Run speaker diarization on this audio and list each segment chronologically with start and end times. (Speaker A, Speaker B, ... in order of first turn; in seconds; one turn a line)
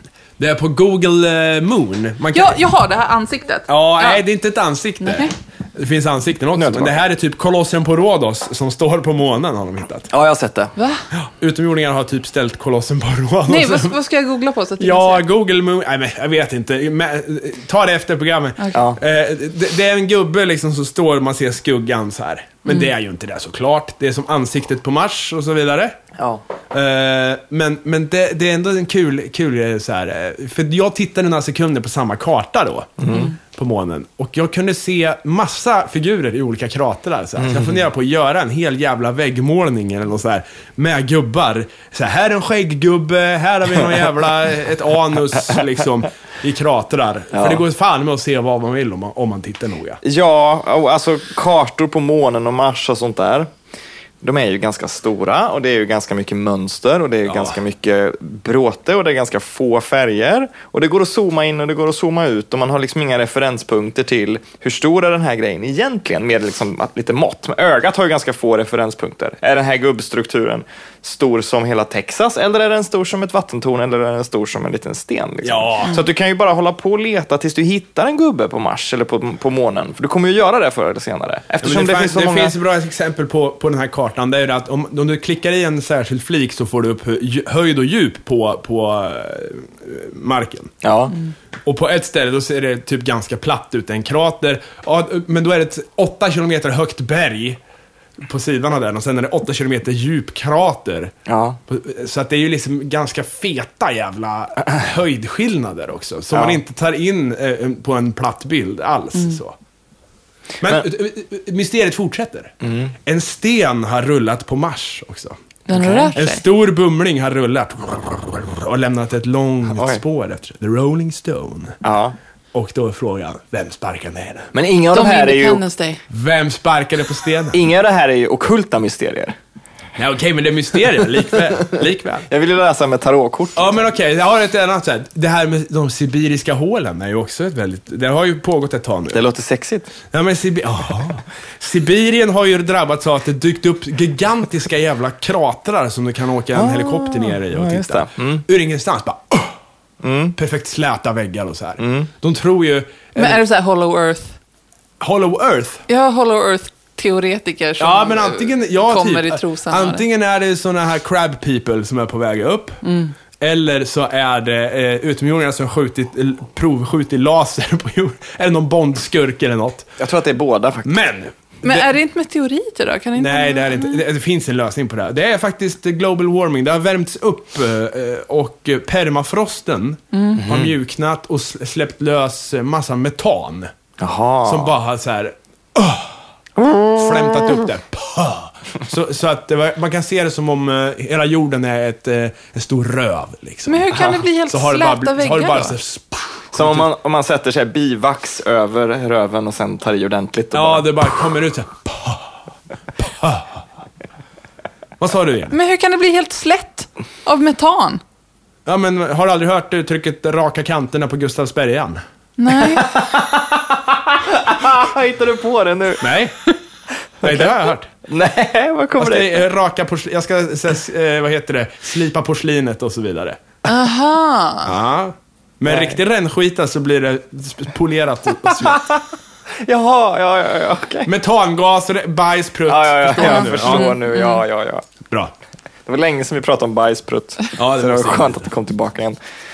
Speaker A: 0.4-2.6
Speaker B: 2.3-4.2
Speaker A: 3.7-10.1
Speaker B: 5.0-5.3
Speaker C: 6.6-7.0
Speaker C: 10.1-10.7
Speaker B: 10.8-11.1
Speaker A: 11.1-14.0
Speaker B: 13.5-15.2
Speaker A: 14.8-26.0
Speaker C: 18.7-19.0
Speaker C: 26.2-26.4
Speaker A: 26.7-50.0
Speaker C: 33.0-33.3
Speaker C: 37.4-37.9
Speaker C: 47.3-47.6
Speaker C: 50.0-53.5
Speaker C: 54.2-82.5
Speaker A: 57.3-57.6
Speaker A: 75.4-76.0
Speaker A: 81.6-90.7
Speaker C: 90.8-91.2
Speaker A: 91.7-97.6
Speaker A: 98.2-101.1
Speaker C: 101.3-101.6
Speaker A: 101.7-109.5
Speaker C: 106.3-106.6
Speaker A: 110.6-112.5
Speaker C: 112.6-112.9
Speaker A: 113.1-115.4
Speaker B: 115.7-116.4
Speaker C: 115.7-116.1
Speaker A: 116.2-121.8
Speaker C: 119.7-120.0
Speaker C: 121.8-122.2
Speaker A: 122.5-124.5
Speaker C: 124.5-125.6
Speaker B: 124.9-126.0
Speaker A: 126.1-127.6
Speaker C: 127.5-129.4
Speaker A: 130.0-132.3
Speaker C: 132.3-133.8
Speaker A: 133.6-139.2
Speaker C: 139.1-139.9
Speaker A: 140.1-149.6
Speaker C: 146.6-148.4
Speaker C: 150.0-150.4
Speaker A: 150.4-153.4
Speaker C: 151.8-152.1
Speaker B: 153.2-154.3
Speaker A: 155.0-155.8
Speaker B: 155.9-160.0
Speaker A: 157.8-162.8
Speaker B: 162.8-163.1
Speaker A: 163.4-169.9
Speaker C: 170.0-171.0
Speaker A: 170.8-171.9
Speaker B: 171.6-174.0
Speaker A: 173.2-183.7
Speaker B: 180.1-180.4
Speaker C: 180.4-180.8
Speaker C: 184.0-184.8
Speaker A: 184.5-186.2
Speaker C: 186.6-186.9
Speaker A: 186.8-196.9
Speaker B: 193.7-195.8
Speaker C: 196.5-200.9
Speaker A: 200.5-202.3
Speaker A: 203.0-203.6
Speaker A: 205.0-205.6
Speaker B: 205.5-208.0
Speaker A: 208.7-212.0
Speaker B: 212.4-212.9
Speaker C: 212.8-216.0
Speaker A: 216.0-216.3
Speaker C: 217.2-217.6
Speaker A: 217.2-217.9
Speaker C: 218.1-219.5
Speaker A: 219.0-223.4
Speaker B: 223.7-224.7
Speaker A: 224.7-228.8
Speaker C: 225.7-226.0
Speaker C: 228.6-229.0
Speaker C: 229.6-231.1
Speaker A: 231.1-234.0
Speaker C: 232.7-234.8
Speaker B: 233.2-234.4
Speaker C: 235.9-239.2
Speaker A: 237.6-238.5